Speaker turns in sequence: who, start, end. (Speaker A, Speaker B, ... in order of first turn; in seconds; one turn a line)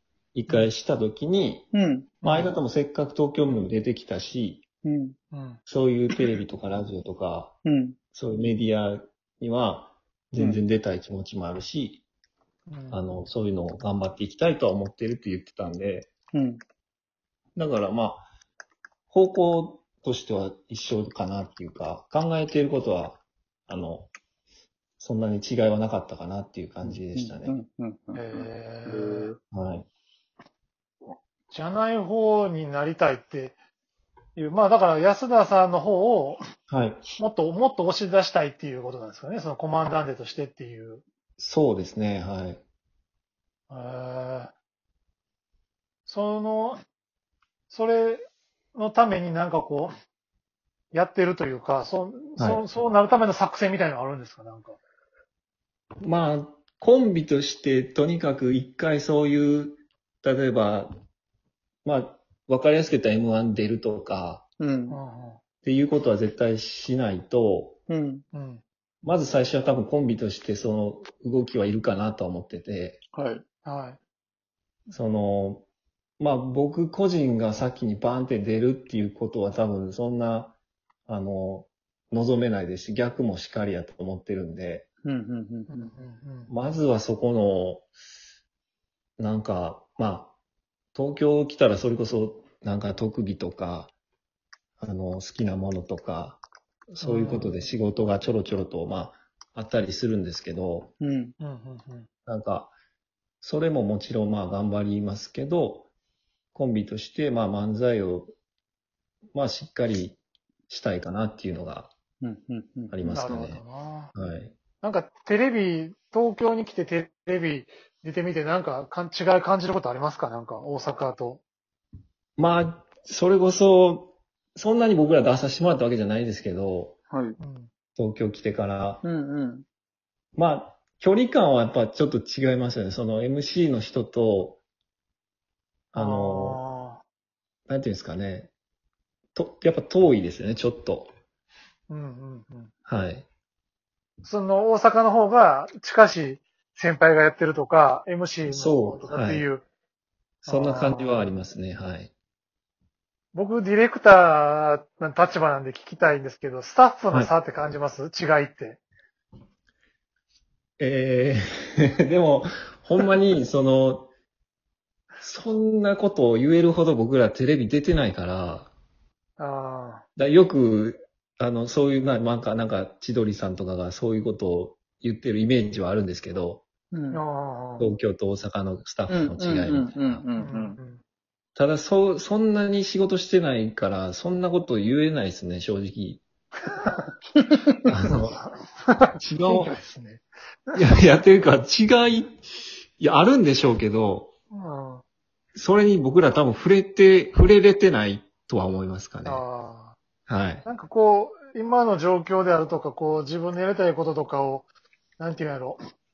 Speaker A: 0.3-1.7
Speaker B: 1.7-2.2
Speaker C: 2.2-2.5
Speaker A: 2.2-4.6
Speaker B: 4.8-5.2
Speaker C: 5.3-5.6
Speaker A: 5.7-7.5
Speaker B: 7.6-8.0
Speaker A: 8.1-12.0
Speaker B: 10.4-10.6
Speaker C: 12.7-13.0
Speaker A: 12.9-16.1
Speaker B: 16.3-16.6
Speaker A: 17.6-18.3
Speaker A: 19.1-24.1
Speaker A: 25.0-27.5
Speaker B: 26.8-29.4
Speaker C: 28.1-29.3
Speaker A: 29.5-29.9
Speaker C: 31.5-33.6
Speaker C: 34.3-36.4
Speaker A: 36.7-37.0
Speaker C: 37.2-41.0
Speaker A: 41.4-42.6
Speaker C: 43.7-44.5
Speaker C: 46.0-46.8
Speaker C: 47.7-49.9
Speaker C: 50.9-54.8
Speaker A: 52.4-52.6
Speaker A: 56.0-60.9
Speaker A: 61.8-64.4
Speaker B: 64.6-65.0
Speaker C: 64.9-65.4
Speaker A: 65.6-67.8
Speaker B: 67.9-68.2
Speaker C: 68.3-68.6
Speaker A: 69.0-73.0
Speaker B: 73.1-73.4
Speaker C: 73.6-74.0
Speaker A: 74.9-75.7
Speaker A: 76.2-80.5
Speaker A: 81.1-84.9
Speaker B: 85.0-85.9
Speaker C: 85.7-86.5
Speaker A: 86.5-87.9
Speaker A: 89.2-90.3
Speaker A: 90.9-93.9
Speaker A: 94.8-100.9
Speaker C: 97.0-97.6
Speaker B: 101.0-101.3
Speaker C: 101.4-102.1
Speaker A: 102.2-102.7
Speaker A: 103.4-105.9
Speaker A: 106.5-108.3
Speaker A: 109.3-111.9
Speaker B: 112.2-113.1
Speaker A: 112.9-113.6
Speaker C: 113.0-114.1
Speaker A: 114.1-114.5
Speaker C: 114.8-121.4
Speaker A: 122.4-127.0
Speaker B: 127.1-127.4
Speaker C: 127.4-127.7
Speaker A: 128.0-129.0
Speaker B: 129.0-129.6
Speaker A: 130.3-134.6
Speaker A: 135.9-136.6
Speaker C: 135.9-137.0
Speaker A: 137.7-138.5
Speaker A: 139.3-141.1
Speaker C: 141.9-142.7
Speaker A: 142.8-143.3
Speaker C: 144.2-149.6
Speaker A: 148.5-149.4
Speaker C: 150.4-151.3
Speaker A: 150.5-152.1
Speaker C: 153.3-158.8
Speaker A: 160.8-164.1
Speaker A: 165.2-168.7
Speaker C: 169.4-170.0
Speaker A: 170.2-176.6
Speaker B: 176.9-177.2
Speaker C: 177.1-177.9
Speaker A: 177.8-180.2
Speaker B: 179.1-180.8
Speaker C: 180.4-181.0
Speaker A: 181.6-186.2
Speaker C: 186.7-187.0
Speaker A: 187.9-188.4
Speaker C: 188.1-190.8
Speaker A: 189.2-189.7
Speaker A: 190.7-192.4
Speaker A: 193.0-194.3
Speaker C: 194.5-195.0
Speaker A: 195.5-199.4
Speaker C: 199.2-200.0
Speaker A: 200.3-200.6
Speaker C: 200.6-205.8